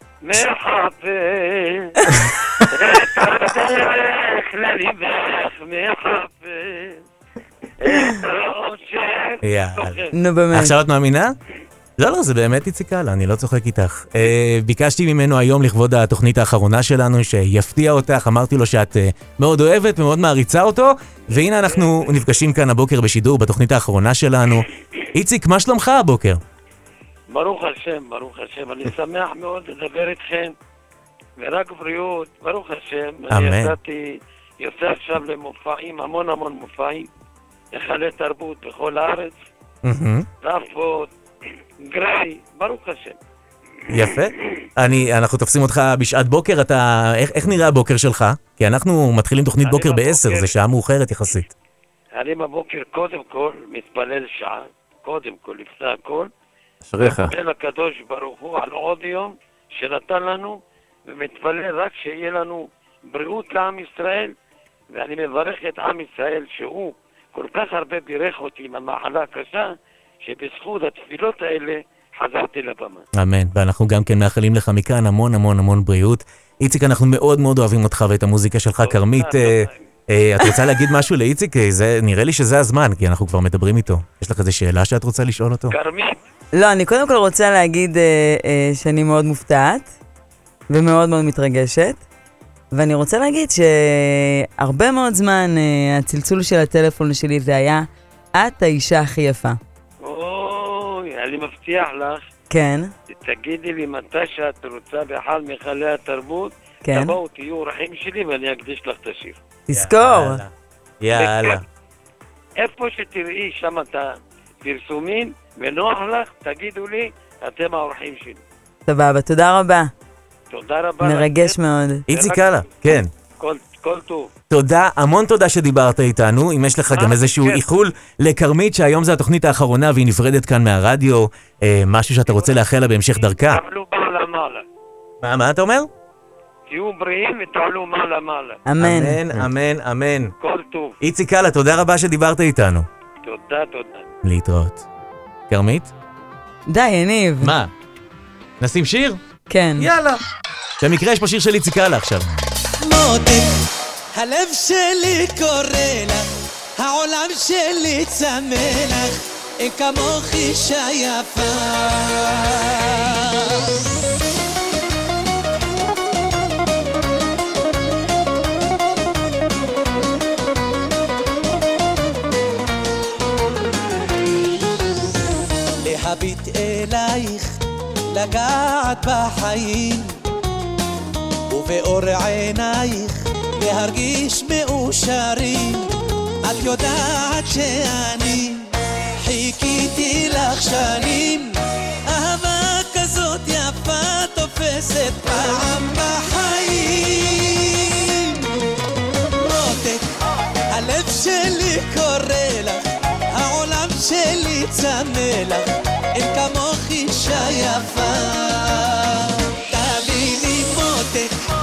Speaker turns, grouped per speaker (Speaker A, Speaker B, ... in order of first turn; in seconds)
Speaker A: 0.2-2.0, 2.7-7.0, 7.8-10.1, 21.4-22.1, 27.3-30.5, 31.4-37.1, 37.7-39.4, 40.4-41.1, 41.9-43.2, 49.6-50.5, 52.2-56.3, 57.0-64.3, 64.9-69.7, 70.3-73.0, 78.8-79.8, 85.7-86.2, 100.0-102.2, 103.1-109.4, 111.2-111.6, 112.6-114.1, 114.6-118.4, 120.5-121.6, 122.1-122.4, 123.4-124.3, 126.9-127.6, 132.3-132.6, 133.2-134.6, 136.7-138.6, 140.4-140.9, 143.2-144.1
Speaker B: 2.0-2.3, 10.1-10.7, 86.5-89.9, 90.7-92.0, 92.7-99.6, 102.5-102.9, 106.9-107.2, 109.7-110.4, 118.9-119.9, 121.0-122.0, 138.7-139.2, 146.7-147.5, 149.5-149.9
Speaker C: 9.4-10.0, 10.5-11.3, 12.0-26.4, 33.3-33.8, 39.8-40.3, 43.9-51.5, 56.9-57.3, 73.2-85.7, 109.7-110.5, 111.0-111.6, 122.1-123.1, 124.5-133.6, 135.2-135.9, 138.8-140.3, 141.0-142.9, 144.2-144.8, 145.5-145.9, 147.4-147.7, 148.6-149.2, 149.8-150.2, 150.8-152.3
Speaker D: 152.8-153.5, 154.2-156.2, 156.8-163.2, 175.8-177.5, 178.1-180.1, 181.5-185.9, 186.4-188.6, 189.2-191.5, 192.1-197.7, 199.4-200.1, 200.7-202.8, 203.3-205.6, 206.2-208.7, 209.7-211.3